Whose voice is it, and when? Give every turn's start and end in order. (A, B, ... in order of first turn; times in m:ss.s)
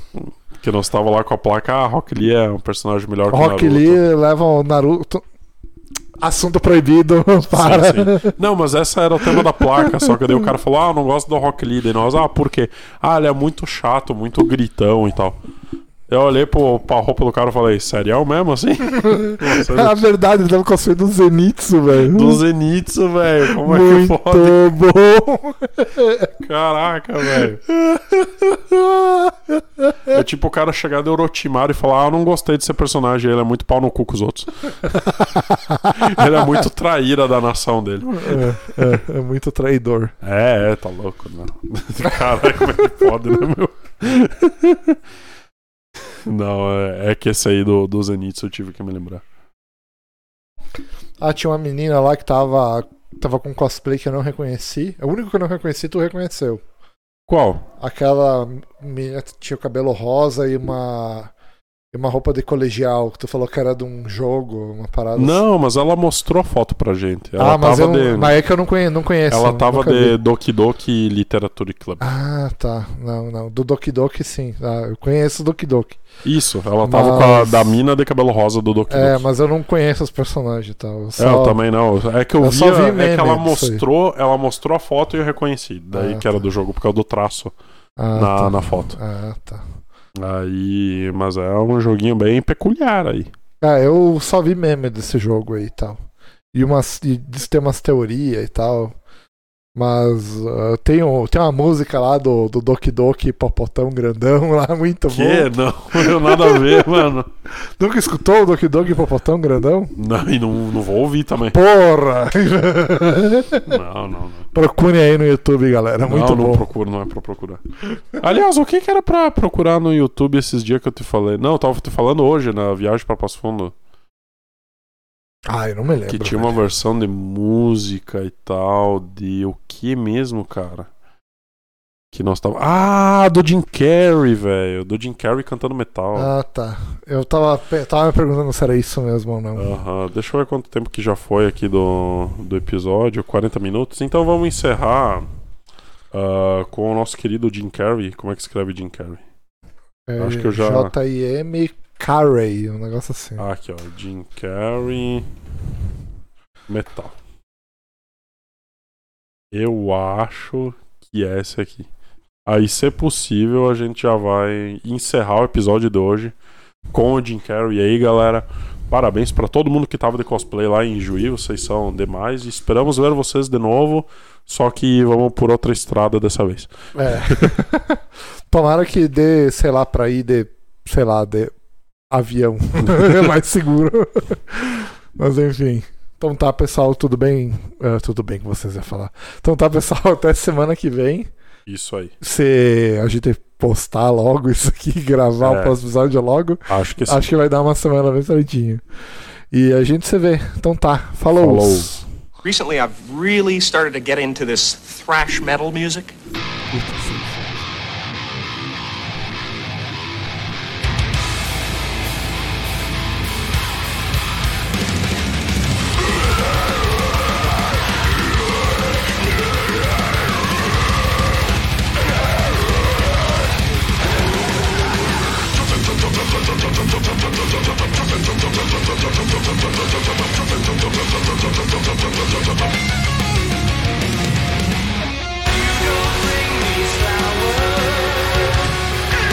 0:00.2-0:04.0 A
0:03.3-0:05.2 B
0:06.2-0:08.3 B
0:07.4-0:15.4 A
0:09.2-0:10.3 B
0:16.1-0:20.0 A
0:18.9-0:22.4 B
0:22.1-0:24.6 A
0:23.4-0:26.3 B
0:26.4-0:27.6 A
0:27.4-0:30.2 B
0:30.1-0:39.0 A
0:34.9-0:36.6 B
0:38.1-0:40.1 B
0:40.2-0:45.0 A
0:46.2-0:49.2 A
0:51.2-0:56.6 B
0:57.3-0:57.6 A
0:57.8-1:01.3 B
1:01.9-1:05.4 B
1:05.1-1:08.3 A
1:07.4-1:10.2 B
1:09.3-1:12.1 A
1:12.0-1:16.0 B
1:16.2-1:19.2 A
1:16.8-1:17.8 B
1:18.9-1:21.6 B
1:21.2-1:27.5 A
1:22.4-1:23.8 B
1:25.9-1:26.4 B
1:28.0-1:29.7 B
1:28.1-1:29.0 A
1:30.2-1:33.3 A
1:33.6-1:36.0 B
1:36.5-1:38.9 B
1:39.7-1:49.9 B
1:45.1-1:47.3 A
1:50.0-1:51.6 A
1:51.5-1:53.8 B
1:53.6-1:54.5 A
1:54.5-1:56.6 B
1:56.0-2:03.7 A
2:05.4-2:06.6 B
2:06.1-2:10.9 A
2:12.1-2:16.3 A
2:16.1-2:19.7 B
2:19.6-2:25.3 A
2:26.1-2:29.2 A
2:30.1-2:33.4 B
2:30.2-2:30.9 A
2:33.4-2:35.3 A
2:36.7-2:37.1 A
2:39.5-2:41.9 A
2:42.4-2:46.3 A
2:46.9-2:57.5 A
2:56.9-3:01.5 B
3:02.1-3:11.3 B
3:11.7-3:12.1 A
3:12.2-3:18.8 B
3:15.4-3:15.7 A
3:16.7-3:17.2 A
3:19.5-3:22.0 B
3:21.3-3:21.9 A
3:22.4-3:26.1 C
3:26.7-3:27.4 B